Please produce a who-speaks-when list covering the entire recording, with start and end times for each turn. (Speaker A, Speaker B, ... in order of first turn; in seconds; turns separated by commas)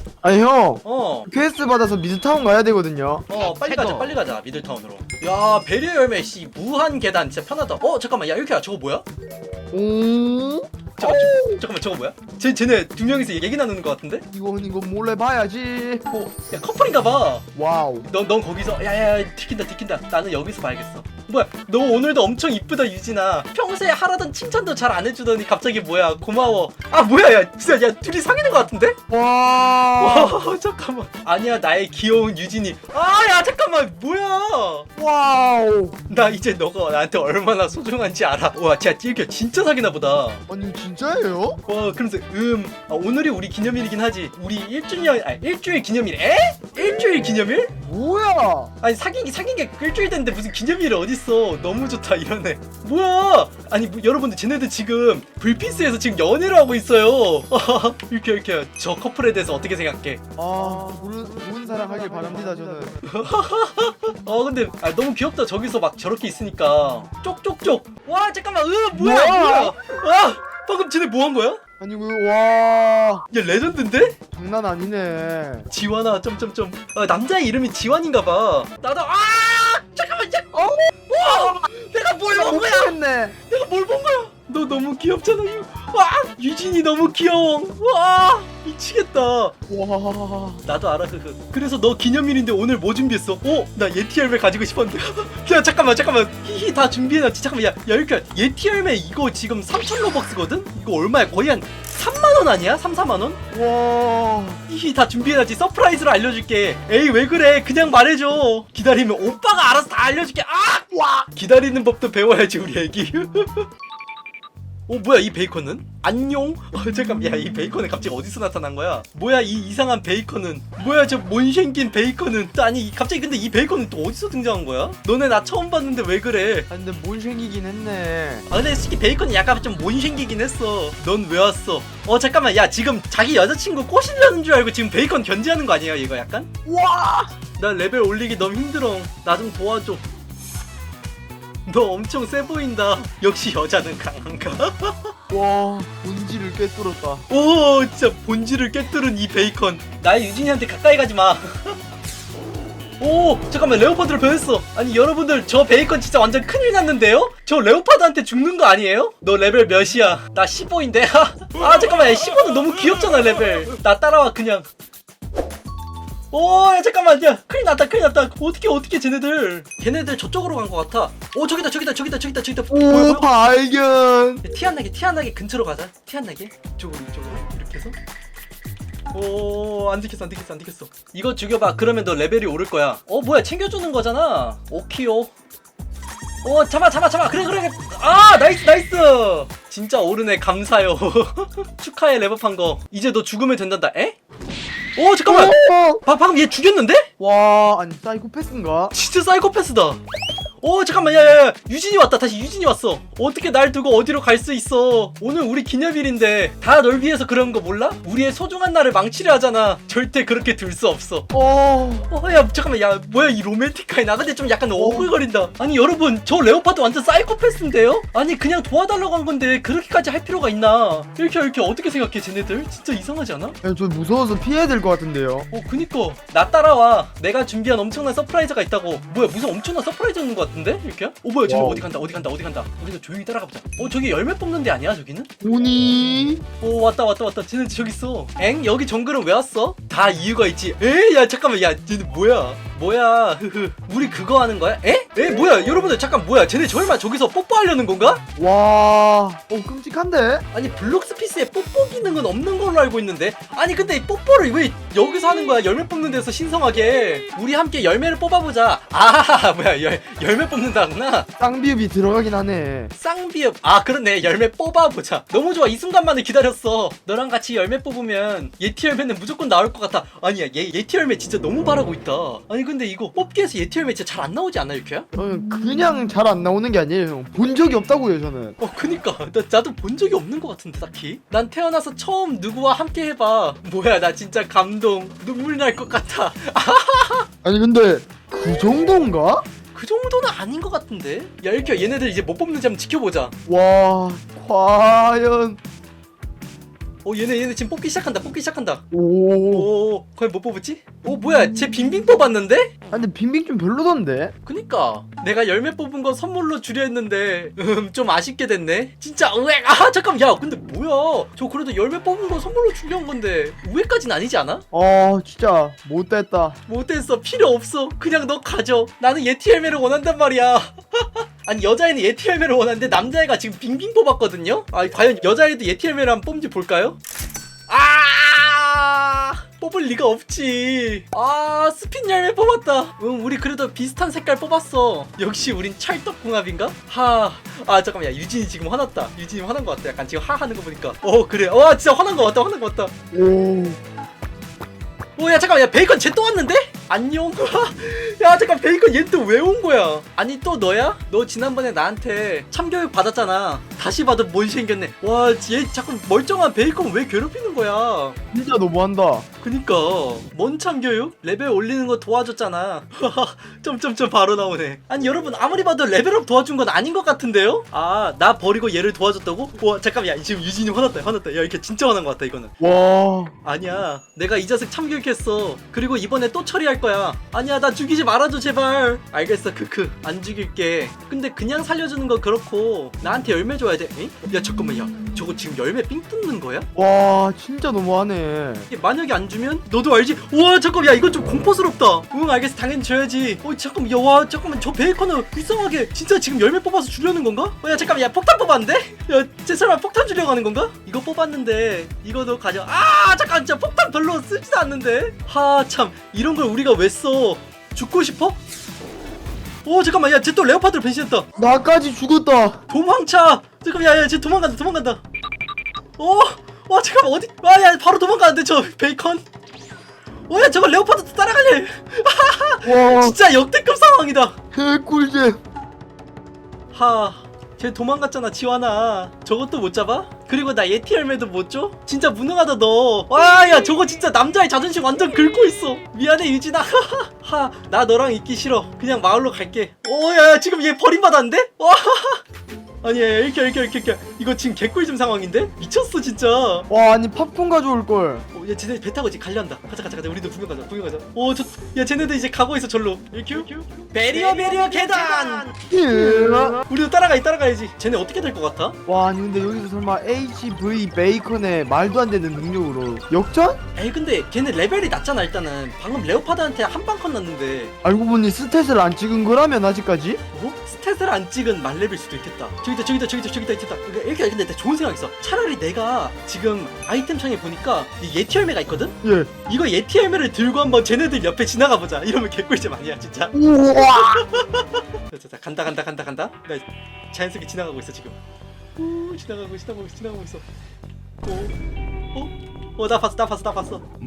Speaker A: 0.2-4.1, Speaker B: 0.8-1.3, Speaker B: 3.3-9.0, Speaker A: 9.7-11.6, Speaker B: 11.0-14.2, Speaker A: 14.3-16.0, Speaker B: 16.1-17.4, Speaker A: 17.5-18.1, Speaker B: 18.1-29.0, Speaker A: 29.1-30.4, Speaker B: 30.0-34.9, Speaker A: 35.0-36.0, Speaker B: 36.1-40.4, Speaker A: 40.5-41.6, Speaker B: 41.6-47.7, Speaker A: 47.8-48.7, Speaker B: 48.8-60.2, Speaker A: 60.4-63.0, Speaker B: 63.0-71.6, Speaker A: 68.9-69.7, Speaker A: 71.8-73.2, Speaker B: 73.3-74.2, Speaker A: 74.3-75.7, Speaker B: 75.7-82.9, Speaker A: 80.5-81.6, Speaker A: 82.3-83.3, Speaker B: 83.5-89.5, Speaker A: 89.7-90.6, Speaker B: 90.6-103.4, Speaker A: 103.5-104.6, Speaker B: 104.7-113.7, Speaker B: 114.9-126.7, Speaker A: 126.7-128.5, Speaker B: 128.5-136.5, Speaker A: 136.7-137.3, Speaker B: 137.6-140.0, Speaker B: 141.7-145.1, Speaker A: 145.3-147.2, Speaker B: 147.3-151.8, Speaker B: 153.0-164.7, Speaker B: 166.3-173.3, Speaker A: 172.7-174.4, Speaker B: 174.4-178.0, Speaker B: 179.1-185.3, Speaker B: 186.4-194.2, Speaker B: 194.9-197.1, Speaker A: 195.3-196.0, Speaker A: 197.2-198.9, Speaker B: 198.9-200.0, Speaker B: 200.6-211.3, Speaker A: 211.3-212.1, Speaker B: 212.1-223.6, Speaker A: 214.8-215.1, Speaker A: 223.6-225.5, Speaker B: 225.5-235.3, Speaker A: 231.5-231.8, Speaker A: 235.4-236.4, Speaker B: 236.6-248.2, Speaker A: 248.4-250.4, Speaker B: 250.5-261.3, Speaker A: 261.4-262.9, Speaker B: 262.9-275.1, Speaker A: 275.1-278.6, Speaker B: 278.6-287.3, Speaker A: 287.4-289.4, Speaker B: 289.7-293.3, Speaker A: 293.5-295.6, Speaker B: 297.0-298.8, Speaker A: 298.9-299.7, Speaker B: 299.5-302.7, Speaker A: 302.9-304.3, Speaker B: 304.4-314.6, Speaker A: 314.7-316.6, Speaker B: 316.7-327.0, Speaker B: 327.7-342.9, Speaker A: 343.1-343.8, Speaker B: 345.2-358.2, Speaker A: 358.3-359.2, Speaker B: 359.4-372.5, Speaker A: 372.6-373.3, Speaker B: 373.4-386.7, Speaker A: 386.7-388.7, Speaker B: 388.7-408.4, Speaker B: 409.6-411.3, Speaker A: 411.4-412.6, Speaker B: 412.7-415.0, Speaker B: 416.0-419.2, Speaker B: 420.3-424.4, Speaker A: 422.6-423.2, Speaker A: 424.5-425.4, Speaker B: 426.7-442.2, Speaker B: 442.8-446.7, Speaker A: 446.7-448.2, Speaker B: 448.3-455.5, Speaker A: 455.7-456.6, Speaker B: 456.6-458.8, Speaker A: 458.9-463.6, Speaker B: 463.7-467.7, Speaker A: 467.8-470.2, Speaker B: 470.3-488.2, Speaker A: 479.0-479.3, Speaker A: 483.3-484.2, Speaker B: 488.8-490.4, Speaker B: 491.2-491.5, Speaker B: 492.1-493.9